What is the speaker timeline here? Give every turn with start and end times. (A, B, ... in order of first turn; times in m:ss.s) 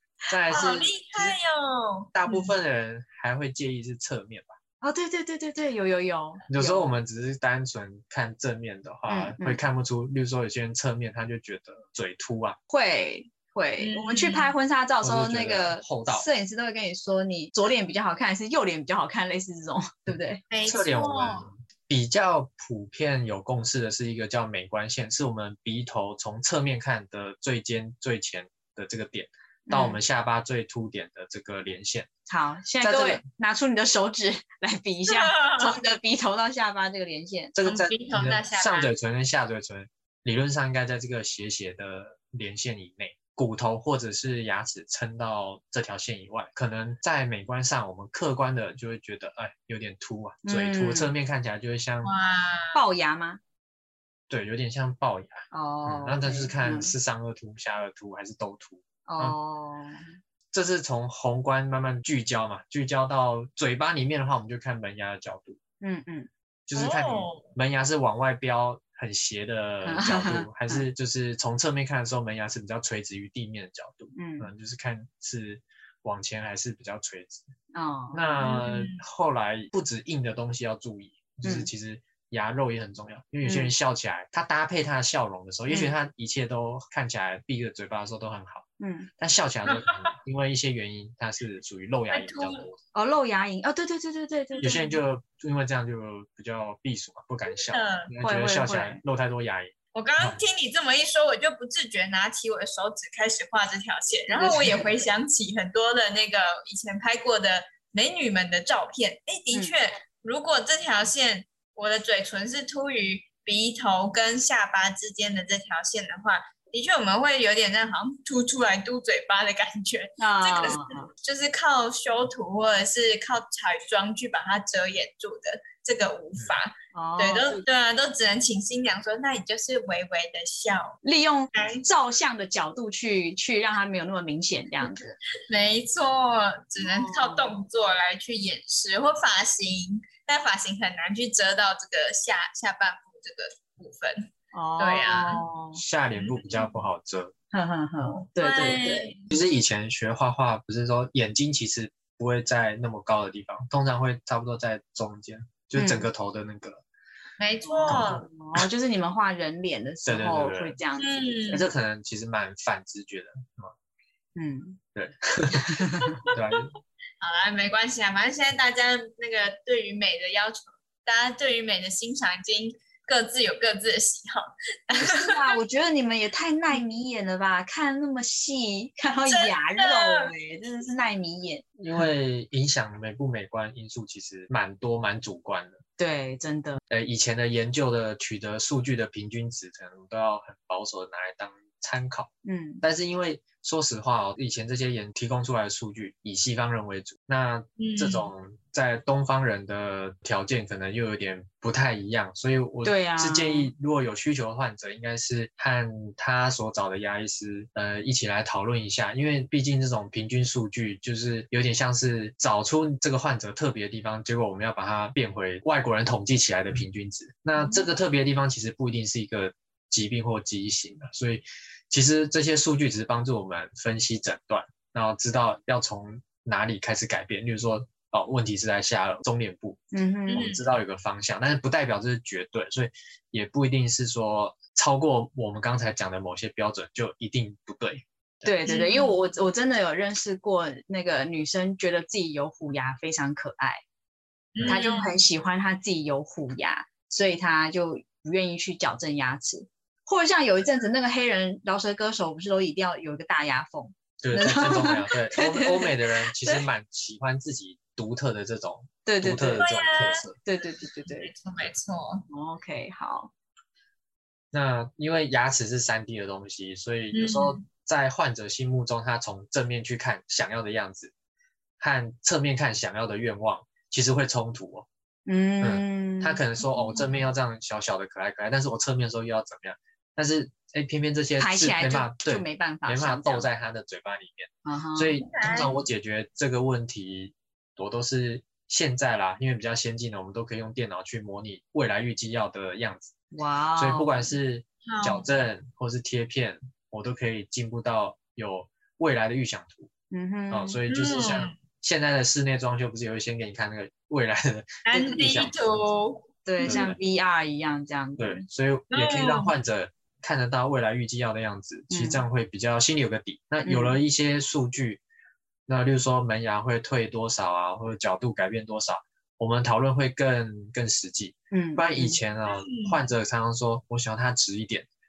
0:00.3-0:01.4 A
0:00.5-0:02.5 B
0:02.1-0:04.5 A
0:04.8-0:06.9 C
0:06.5-0:12.6 A
0:09.1-0:09.6 C
0:12.7-0:20.4 C
0:13.8-0:14.5 B
0:15.0-0:16.2 A
0:20.5-0:21.5 B
0:20.6-0:32.1 A
0:29.7-0:30.0 C
0:32.3-0:37.5 C
0:32.8-0:33.2 A
0:35.1-0:35.8 B
0:37.5-0:52.1 A
0:37.6-0:38.9 B
0:50.4-0:51.1 C
0:52.0-0:52.8 B
0:52.7-0:53.4 C
0:54.3-0:59.4 A
0:55.5-0:56.9 C
0:59.1-1:00.0 C
1:00.5-1:05.6 A
1:05.8-1:06.3 C
1:06.7-1:17.5 A
1:06.8-1:07.4 B
1:09.8-1:10.8 C
1:14.1-1:14.5 C
1:17.7-1:18.4 C
1:18.1-1:28.6 A
1:18.4-1:19.0 B
1:21.4-1:21.7 C
1:23.4-1:23.7 C
1:25.7-1:26.0 C
1:28.8-1:29.1 C
1:29.2-1:32.8 A
1:29.7-1:30.1 B
1:32.1-1:32.7 B
1:32.9-1:34.7 C
1:34.6-1:35.0 B
1:34.6-1:40.4 A
1:37.6-1:38.1 B
1:38.2-1:39.0 C
1:39.9-2:11.0 B
1:44.3-1:45.1 C
2:00.2-2:01.1 C
2:06.9-2:07.6 C
2:11.0-2:15.2 C
2:11.5-2:11.9 B
2:15.5-2:25.4 B
2:16.8-2:17.6 C
2:24.5-2:25.8 C
2:25.7-2:27.3 A
2:26.2-2:26.7 B
2:27.5-2:29.1 C
2:28.4-2:29.3 B
2:29.3-2:36.8 A
2:35.8-2:36.0 C
2:37.4-2:38.3 B
2:37.7-2:41.7 C
2:40.0-2:40.8 A
2:41.0-2:41.6 B
2:41.5-2:43.7 A
2:44.4-2:44.8 C
2:44.9-2:46.8 A
2:45.6-2:46.2 C
2:47.2-2:55.6 B
2:54.9-3:01.6 C
2:59.3-3:00.3 B
3:01.8-3:05.8 A
3:06.0-3:06.8 C
3:06.9-3:12.3 A
3:12.4-3:12.8 C
3:12.8-3:49.8 A
3:17.8-3:18.3 B
3:22.8-3:23.7 C
3:49.9-3:50.4 C
3:50.3-3:50.6 B
3:50.3-3:58.5 A
3:58.4-4:03.8 C
3:58.6-3:59.1 B
4:04.5-4:05.1 B
4:04.6-4:04.8 A
4:04.6-4:16.6 C
4:14.2-4:20.4 A
4:19.0-4:19.6 C
4:19.6-4:22.3 B
4:20.4-4:21.3 C
4:22.3-4:23.3 C
4:24.5-4:31.1 A
4:27.1-4:27.6 B
4:31.8-4:34.9 A
4:35.2-4:36.4 C
4:35.6-4:53.1 A
4:41.4-4:43.5 C
4:44.6-4:45.2 C
4:45.2-4:45.7 B
4:53.3-4:54.2 C
4:53.8-4:59.9 A
4:54.9-4:55.2 B
5:00.1-5:00.8 C
5:00.5-5:05.5 A
5:00.9-5:01.5 B
5:04.9-5:06.9 B
5:06.5-5:08.4 C
5:06.6-5:07.0 A
5:08.2-5:15.0 A
5:08.9-5:09.5 B
5:11.9-5:12.2 C
5:13.6-5:14.0 C
5:15.7-5:24.9 A
5:21.5-5:22.2 C
5:22.5-5:23.0 B